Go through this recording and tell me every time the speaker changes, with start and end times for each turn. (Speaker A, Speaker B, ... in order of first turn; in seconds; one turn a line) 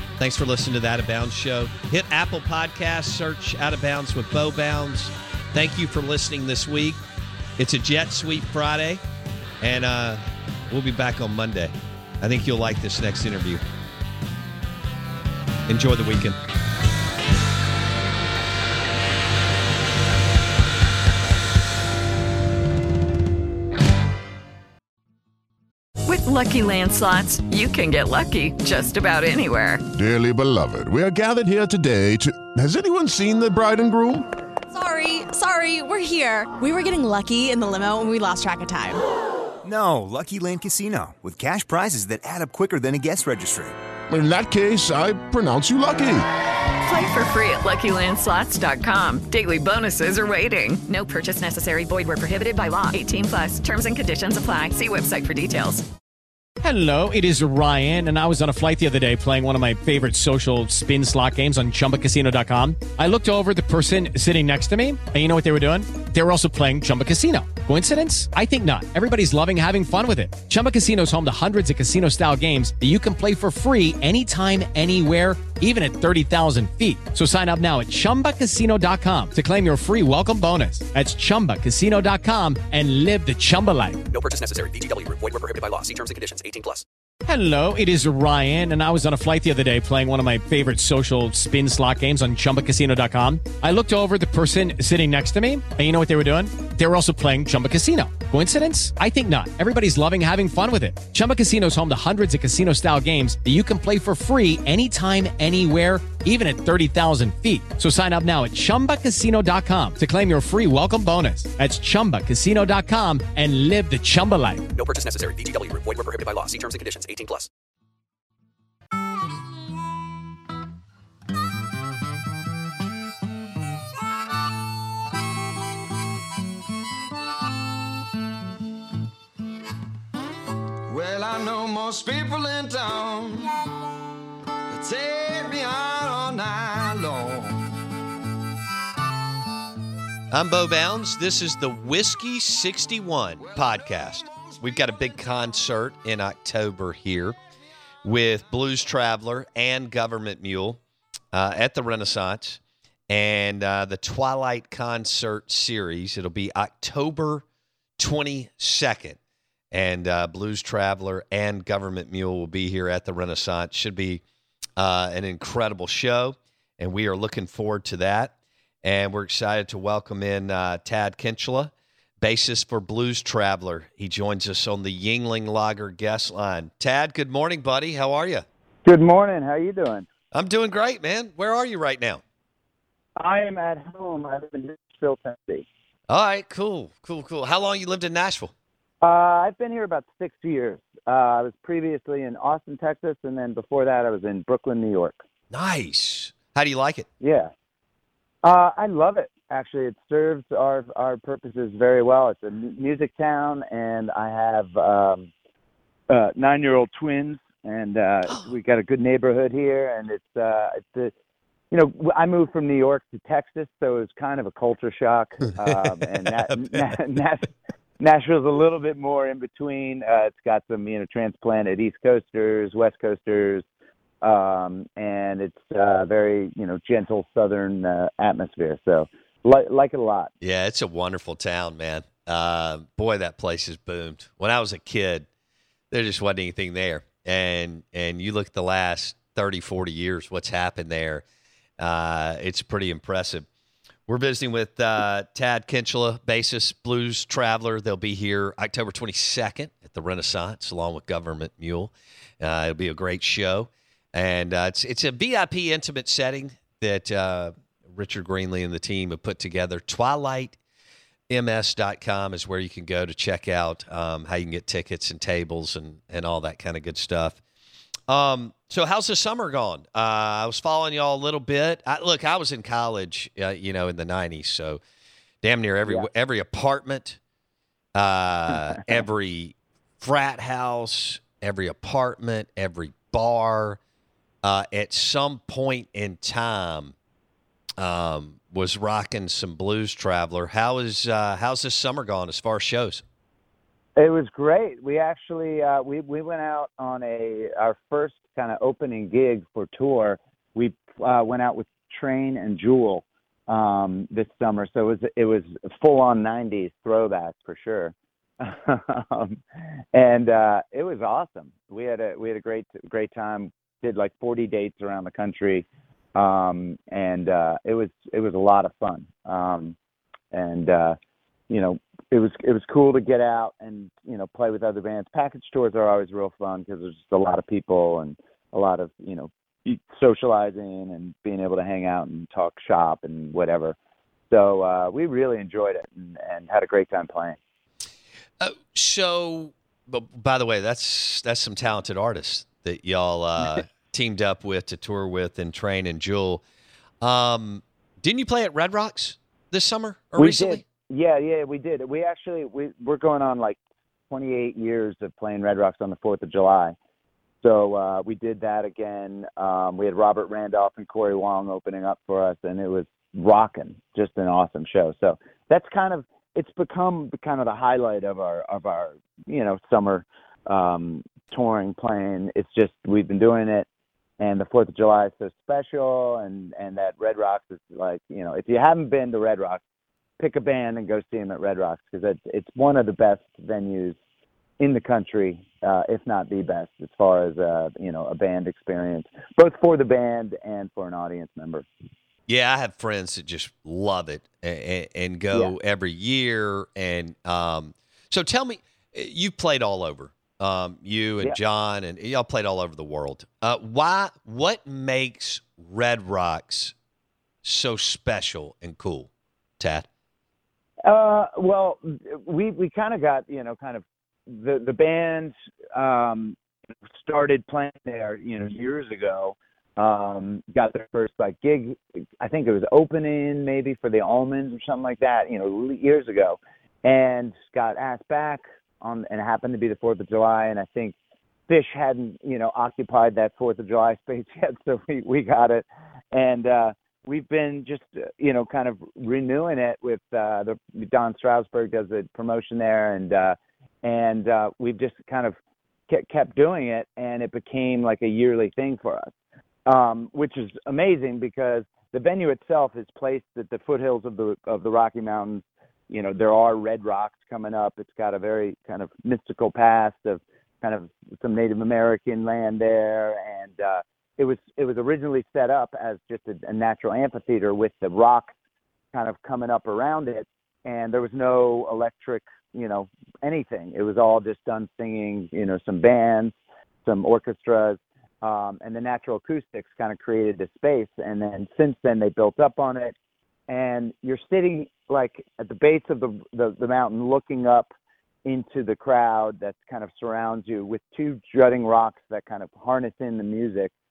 Speaker A: 0.2-7.0
Speaker A: 7.6-9.0
Speaker A: 9.6-13.6
Speaker A: 15.7-16.4
Speaker B: 26.1-29.8
Speaker C: 29.9-34.3
Speaker D: 34.7-39.0
Speaker E: 39.6-43.7
Speaker C: 44.1-46.2
Speaker B: 46.8-55.8
Speaker F: 56.6-84.0
Speaker G: 84.1-86.8
Speaker F: 87.2-114.7
Speaker G: 114.7-117.5
Speaker H: 130.9-133.5
Speaker H: 134.7-137.7
Speaker A: 140.3-147.3
Speaker H: 143.4-145.4
Speaker A: 148.0-150.8
Speaker A: 151.3-157.4
Speaker A: 158.0-159.2
Speaker A: 159.7-164.2
Speaker A: 164.8-178.4
Speaker I: 178.8-180.1
Speaker A: 180.3-182.2
Speaker I: 183.2-185.6
Speaker A: 186.1-188.5
Speaker I: 189.0-195.2
Speaker A: 195.5-197.1
Speaker I: 197.2-197.5
Speaker I: 198.4-205.3
Speaker I: 206.1-211.1
Speaker I: 211.7-223.6
Speaker I: 224.2-230.3
Speaker A: 230.4-235.3
Speaker A: 235.9-241.2
Speaker A: 241.8-243.5
Speaker A: 244.1-260.6
Speaker A: 261.3-267.4
Speaker A: 268.1-274.8
Speaker A: 275.4-277.2
Speaker A: 277.9-283.8
Speaker A: 284.4-286.9
Speaker A: 287.8-293.0
Speaker I: 294.0-309.4
Speaker I: 309.9-319.7
Speaker I: 320.3-321.0
Speaker I: 321.5-333.7
Speaker I: 334.3-337.4
Speaker A: 338.4-346.4
Speaker A: 347.0-350.6
Speaker I: 350.1-353.6
Speaker I: 354.1-356.7
Speaker I: 357.4-373.6
Speaker I: 374.2-379.6
Speaker I: 380.2-383.9
Speaker I: 384.6-391.6
Speaker A: 392.3-406.7
Speaker A: 407.4-409.9
Speaker I: 410.8-416.4
Speaker I: 417.0-430.9
Speaker I: 431.5-445.4
Speaker I: 445.9-449.1
Speaker I: 449.7-468.3
Speaker I: 468.9-482.9
Speaker I: 483.5-487.7
Speaker I: 488.2-493.7